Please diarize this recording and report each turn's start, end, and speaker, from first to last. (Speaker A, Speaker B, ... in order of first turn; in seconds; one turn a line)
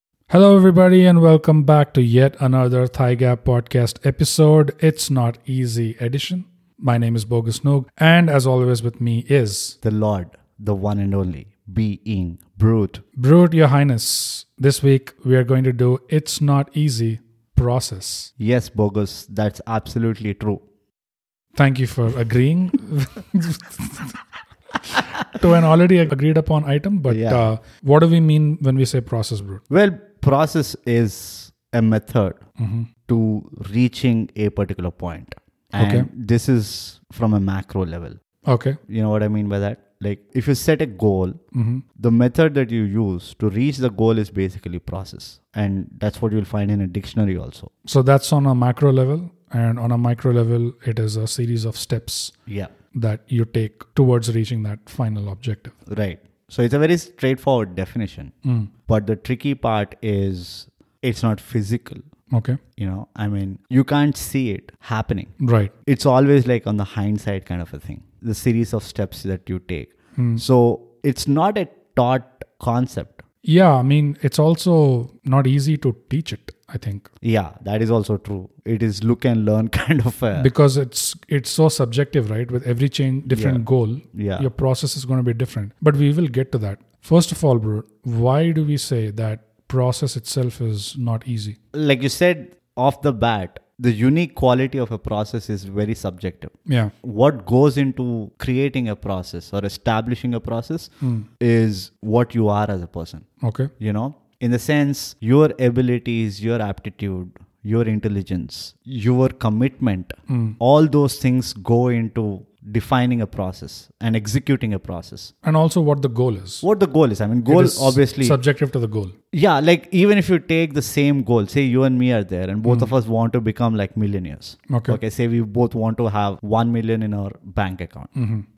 Speaker A: 0.3-9.8
Speaker B: 9.8-13.0
Speaker A: 13.2-18.3
Speaker B: 18.4-20.6
Speaker A: 21.6-24.1
Speaker A: 25.2-29.6
Speaker B: 27.1-27.5
Speaker B: 29.7-32.4
Speaker A: 32.6-32.9
Speaker B: 33.1-38.2
Speaker A: 35.8-36.1
Speaker A: 38.5-38.8
Speaker B: 38.9-41.4
Speaker A: 41.5-41.8
Speaker B: 42.0-47.7
Speaker A: 47.9-52.4
Speaker B: 52.5-52.7
Speaker A: 52.9-55.8
Speaker B: 55.9-58.3
Speaker A: 58.5-58.7
Speaker B: 58.9-62.0
Speaker A: 62.3-62.6
Speaker B: 62.8-65.3
Speaker A: 65.4-65.7
Speaker B: 65.9-73.2
Speaker A: 70.2-70.4
Speaker A: 73.5-77.1
Speaker B: 77.2-80.5
Speaker A: 80.3-91.6
Speaker B: 83.3-84.5
Speaker B: 91.7-100.9
Speaker A: 96.7-96.9
Speaker A: 101.0-101.3
Speaker B: 101.4-103.3
Speaker A: 103.4-103.7
Speaker B: 103.8-115.3
Speaker A: 110.3-110.6
Speaker A: 115.4-116.6
Speaker B: 116.6-118.4
Speaker A: 117.5-119.2
Speaker B: 119.3-128.1
Speaker A: 122.6-122.9
Speaker A: 124.7-125.0
Speaker A: 128.2-128.4